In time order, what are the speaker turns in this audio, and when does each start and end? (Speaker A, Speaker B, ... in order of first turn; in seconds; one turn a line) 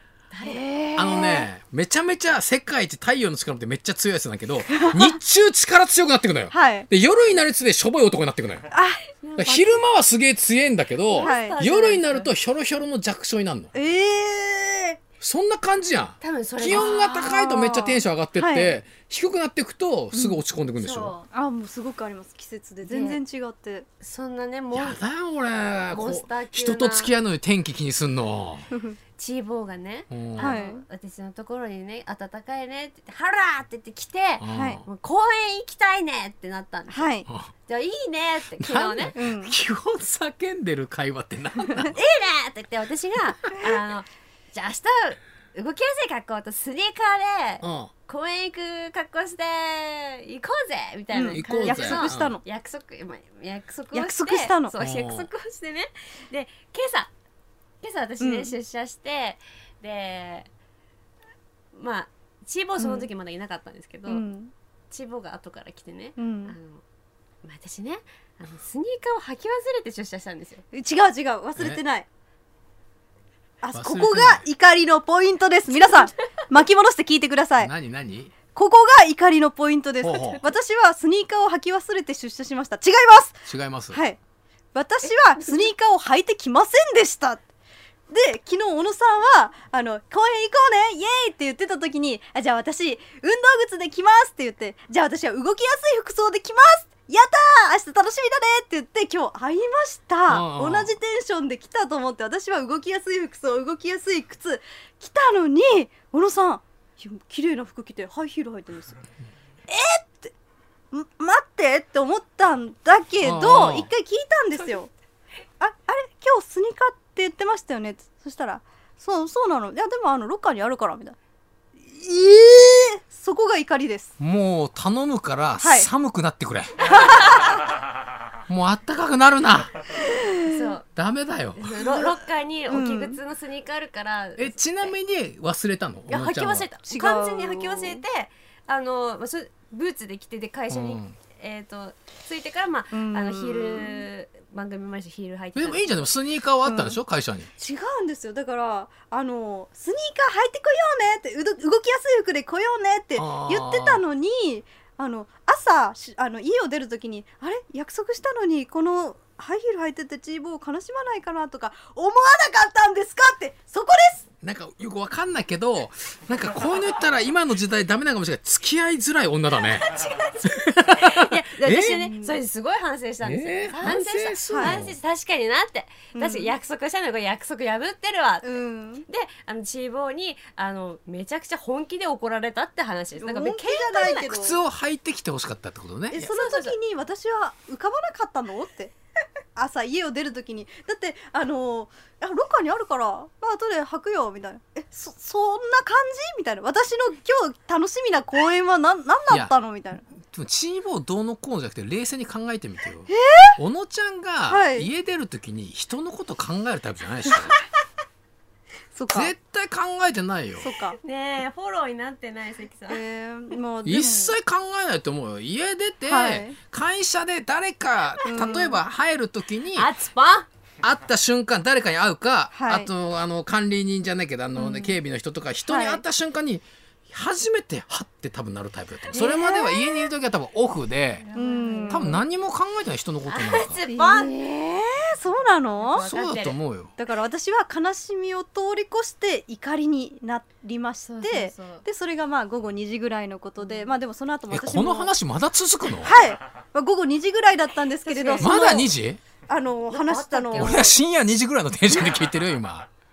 Speaker A: 0.3-0.6
Speaker B: 0.4-1.5
Speaker C: 0.9-8.7
Speaker B: 4.7-5.2
Speaker B: 6.5-6.9
Speaker B: 8.7-9.0
Speaker A: 9.2-9.8
Speaker C: 9.4-13.7
Speaker A: 11.1-12.3
Speaker B: 11.2-11.5
Speaker B: 13.7-15.0
Speaker C: 15.2-21.1
Speaker A: 16.2-17.4
Speaker B: 16.7-18.8
Speaker B: 20.1-20.4
Speaker A: 20.8-21.3
Speaker B: 21.3-23.9
Speaker A: 22.8-23.2
Speaker A: 24.0-25.0
Speaker C: 24.7-28.7
Speaker A: 25.9-27.1
Speaker B: 28.7-29.0
Speaker A: 29.2-37.1
Speaker C: 30.1-30.6
Speaker B: 30.4-30.9
Speaker C: 34.4-34.9
Speaker B: 34.5-34.8
Speaker B: 36.9-37.3
Speaker A: 37.7-39.1
Speaker C: 38.6-42.0
Speaker B: 39.0-39.5
Speaker A: 41.9-57.1
Speaker C: 47.6-47.9
Speaker B: 51.1-52.4
Speaker C: 51.3-52.4
Speaker B: 53.9-54.7
Speaker C: 54.8-55.3
Speaker A: 57.8-60.5
Speaker B: 58.2-58.5
Speaker A: 61.7-64.2
Speaker B: 62.8-63.1
Speaker B: 64.1-64.5
Speaker A: 64.9-66.8
Speaker B: 66.2-66.5
Speaker A: 67.4-70.6
Speaker B: 70.7-72.0
Speaker B: 73.6-77.7
Speaker C: 73.7-74.4
Speaker C: 77.6-78.3
Speaker B: 78.5-84.2
Speaker C: 80.0-80.4
Speaker C: 83.5-84.0
Speaker B: 84.7-87.4
Speaker A: 85.0-85.7
Speaker B: 88.1-109.0
Speaker C: 100.3-101.0
Speaker B: 109.7-110.3
Speaker B: 110.9-114.9
Speaker C: 113.2-113.9
Speaker B: 115.6-121.2
Speaker B: 121.8-124.1
Speaker C: 124.2-127.0
Speaker B: 125.6-125.9
Speaker B: 126.9-127.4
Speaker C: 128.5-129.8
Speaker B: 130.0-130.7
Speaker A: 130.4-130.8
Speaker C: 130.9-131.7
Speaker A: 131.6-134.9
Speaker B: 131.9-132.1
Speaker B: 132.7-133.2
Speaker C: 134.4-136.7
Speaker A: 136.1-146.1
Speaker B: 136.8-138.0
Speaker C: 140.7-141.2
Speaker B: 142.9-144.1
Speaker C: 145.6-147.5
Speaker B: 146.6-147.0
Speaker B: 147.6-164.2
Speaker C: 153.2-154.0
Speaker C: 164.4-172.1
Speaker A: 169.8-184.3
Speaker B: 171.1-172.4
Speaker C: 173.2-174.9
Speaker B: 174.5-174.8
Speaker B: 176.1-176.5
Speaker B: 178.4-179.1
Speaker B: 183.2-184.6
Speaker C: 184.2-186.3
Speaker B: 186.1-188.9
Speaker A: 186.3-186.7
Speaker B: 189.6-200.1
Speaker C: 200.1-207.6
Speaker B: 203.1-203.6
Speaker B: 204.5-204.9
Speaker B: 208.9-209.3
Speaker C: 209.1-210.7
Speaker B: 210.6-211.0
Speaker A: 211.0-213.0
Speaker B: 212.9-214.3
Speaker C: 213.8-219.9
Speaker B: 216.1-216.6
Speaker A: 218.2-218.5
Speaker B: 218.2-218.8
Speaker A: 219.7-220.5
Speaker C: 220.8-231.3
Speaker B: 222.5-222.9
Speaker B: 224.6-225.0
Speaker B: 225.7-226.0
Speaker A: 229.1-229.6
Speaker B: 229.1-230.1
Speaker A: 231.2-232.2
Speaker B: 231.3-232.2
Speaker C: 231.9-233.8
Speaker A: 233.2-234.3
Speaker B: 233.8-236.1
Speaker A: 235.8-236.6
Speaker C: 236.0-236.9
Speaker B: 237.0-245.1
Speaker A: 241.1-241.8
Speaker A: 243.6-243.9
Speaker C: 244.5-246.2
Speaker B: 246.0-248.9
Speaker A: 248.0-248.8
Speaker C: 248.4-249.2
Speaker B: 249.5-250.9
Speaker A: 249.9-250.9
Speaker C: 250.6-252.9